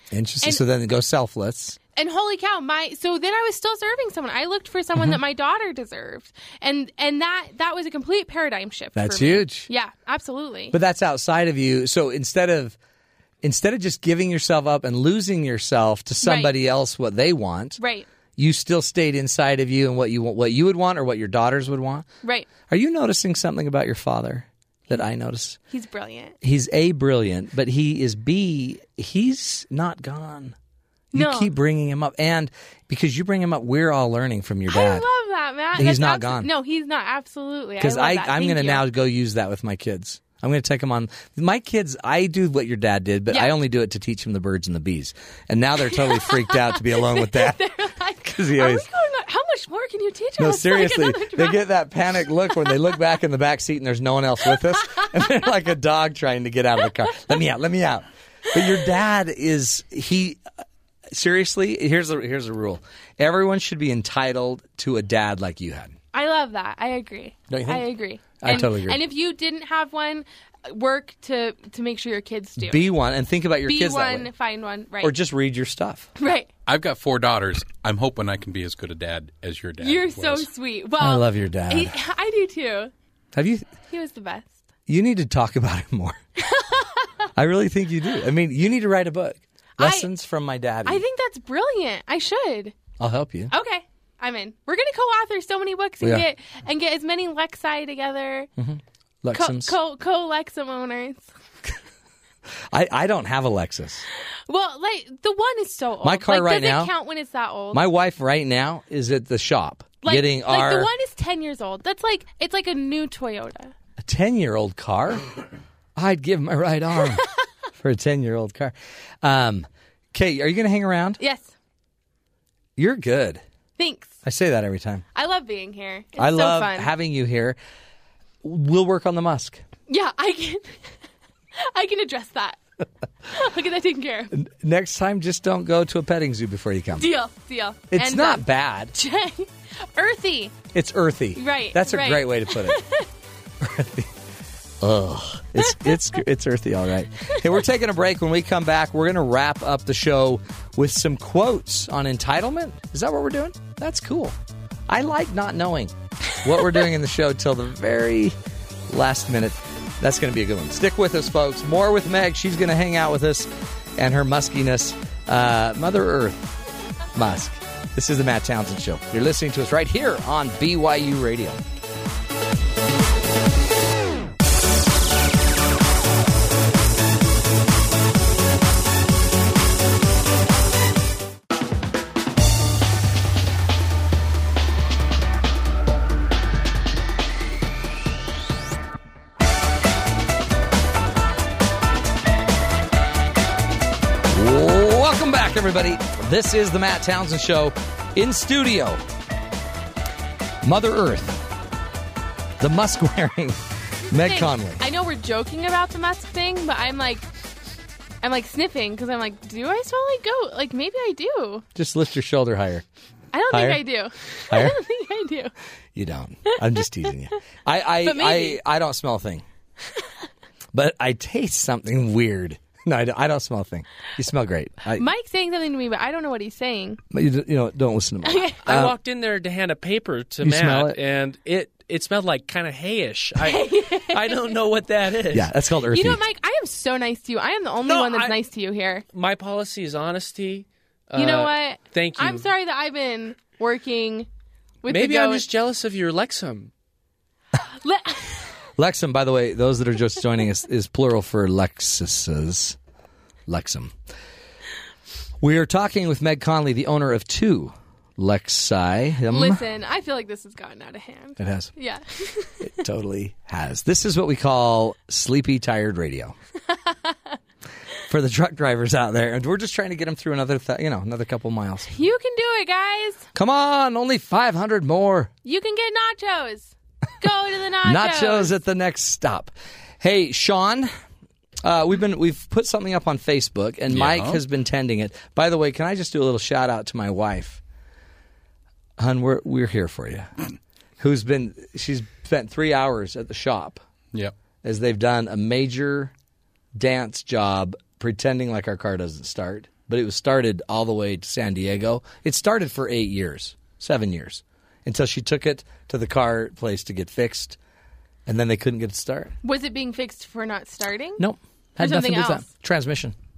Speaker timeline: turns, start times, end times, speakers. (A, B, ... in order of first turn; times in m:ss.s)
0:00.1-0:01.8 A
0:01.9-0:10.8 B
0:09.0-0:09.7 A
0:10.7-0:12.8 A
0:13.4-0:17.8 A
0:16.2-0:16.5 B
0:17.8-0:18.1 B
0:18.4-0:22.1 A
0:22.2-0:22.6 B
0:22.6-0:25.6 A
0:25.7-0:26.4 B
0:26.4-0:30.6 A
0:31.1-0:31.5 B
0:31.1-0:35.1 A
0:34.7-0:38.8 B
0:35.7-0:36.5 A
0:37.8-0:47.7 A
0:43.3-0:43.6 B
0:45.8-0:51.7 B
0:48.2-0:48.9 A
0:50.4-1:00.4 A
0:52.3-0:52.8 B
0:54.5-0:55.0 B
1:01.1-1:06.0 A
1:06.1-1:12.9 B
1:07.5-1:07.9 A
1:08.4-1:09.0 A
1:12.6-1:14.3 A
1:13.6-1:15.2 B
1:15.0-1:16.1 A
1:16.2-1:16.5 B
1:16.7-1:20.5 C
1:19.8-1:22.9 B
1:21.0-1:22.0 A
1:23.3-1:23.8 A
1:23.9-1:24.6 B
1:24.9-1:26.2 A
1:26.4-1:27.1 B
1:27.4-1:31.0 A
1:29.8-1:30.1 B
1:30.8-1:32.8 B
1:33.0-1:33.5 A
1:33.5-1:38.5 B
1:38.6-1:39.8 A
1:39.3-1:41.3 B
1:42.7-1:44.1 A
1:44.5-1:47.8 B
1:46.0-1:46.9 A
1:47.7-1:50.9 A
1:50.0-1:53.7 B
1:54.0-1:55.2 A
1:56.0-2:01.2 A
2:01.2-2:01.5 B
2:02.8-2:03.4 A
2:03.8-2:04.2 B
2:04.2-2:05.0 A
2:05.1-2:06.9 B
2:06.2-2:07.6 A
2:08.4-2:09.6 A
2:09.9-2:10.8 B
2:11.6-2:12.6 B
2:13.3-2:14.3 B
2:14.3-2:17.1 A
2:17.0-2:20.7 B
2:17.9-2:19.0 A
2:20.7-2:22.8 A
2:21.4-2:23.1 B
2:23.6-2:24.1 A
2:24.8-2:34.4 A
2:25.6-2:26.0 B
2:34.9-2:38.4 A
2:38.9-2:46.5 A
2:47.2-2:51.6 A
3:14.3-3:19.0 A
3:20.6-3:21.4 A
3:22.6-3:24.8 A
3:24.1-3:27.3 B
3:28.2-3:31.7 B
3:31.8-3:32.8 A
3:33.3-3:35.5 B
3:33.5-3:33.8 A
3:34.5-3:34.8 A
3:36.0-3:39.4 A
3:38.0-3:38.6 B
3:40.7-3:45.1 A
3:44.9-3:47.0 B
3:47.1-3:49.0 A
3:48.2-3:48.6 B
3:48.6-3:55.5 D
3:50.4-3:51.0 A
3:53.4-3:54.6 B
3:55.3-3:56.2 A
3:55.9-3:59.0 B
3:57.8-3:58.4 D
3:59.1-4:02.5 D
4:01.2-4:04.3 B
4:04.8-4:05.5 B
4:04.8-4:06.7 D
4:07.7-4:08.5 B
4:08.8-4:12.8 A
4:13.5-4:14.0 A
4:15.4-4:19.6 A
4:19.3-4:22.7 B
4:21.4-4:21.7 A
4:22.6-4:26.4 A
4:26.7-4:27.4 B
4:28.1-4:31.9 A
4:31.9-4:33.3 B
4:33.4-4:35.3 A
4:35.4-4:38.6 B
4:37.8-4:40.9 A
4:41.6-4:47.6 A
4:43.9-4:44.4 C
4:49.0-4:50.3 A
4:51.0-4:53.8 A
4:54.6-4:56.1 A
4:56.8-5:07.6 A
5:08.3-5:09.3 A
5:09.4-5:11.2 B
5:11.2-5:13.2 A
5:11.8-5:12.5 B